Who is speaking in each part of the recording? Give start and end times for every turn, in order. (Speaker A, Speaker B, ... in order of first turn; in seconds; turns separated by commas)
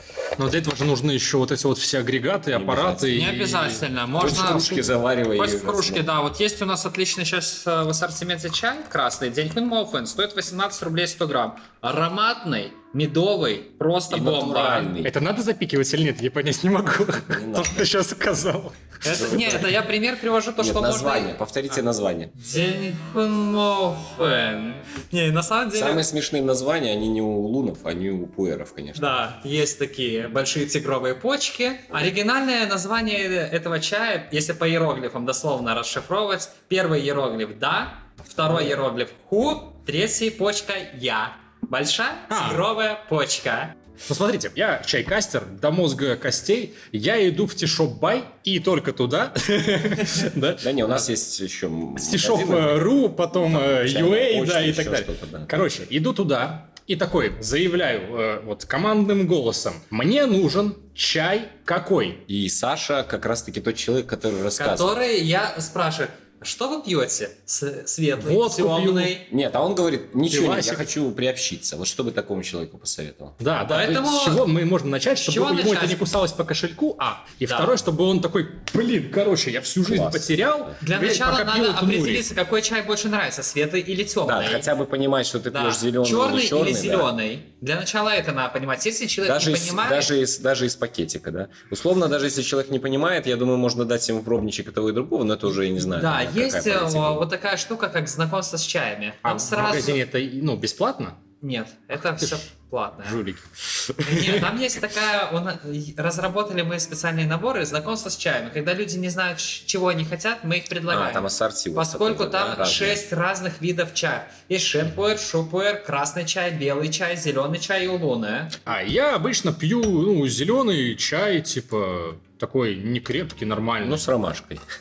Speaker A: 0.4-4.3, Speaker B: 2.5-3.5, Speaker C: 3.1-14.9, Speaker B: 4.1-6.1, Speaker B: 14.1-15.2, Speaker A: 15.0-18.8, Speaker B: 17.3-17.8, Speaker C: 19.0-21.3, Speaker B: 19.1-19.8, Speaker B: 20.6-22.3, Speaker C: 22.4-26.0, Speaker B: 25.7-29.2, Speaker C: 28.9-43.7, Speaker A: 42.3-42.6, Speaker A: 44.1-51.0, Speaker B: 50.6-52.9, Speaker A: 52.0-62.2, Speaker B: 53.5-55.6, Speaker B: 62.3-64.9, Speaker C: 64.6-69.2, Speaker A: 68.2-69.1, Speaker B: 69.2-73.4, Speaker A: 70.3-70.9, Speaker A: 73.4-82.2, Speaker C: 73.6-74.5, Speaker C: 75.2-76.0, Speaker C: 77.5-77.7, Speaker B: 79.8-80.8, Speaker C: 80.8-84.7, Speaker B: 84.2-87.1, Speaker C: 85.5-90.1, Speaker B: 89.2-97.2, Speaker C: 95.6-100.0, Speaker A: 99.2-101.2, Speaker C: 101.4-103.2, Speaker A: 102.2-102.4, Speaker A: 103.0-104.5, Speaker C: 104.0-118.5, Speaker B: 110.9-113.0, Speaker A: 118.7-124.0, Speaker B: 123.8-124.6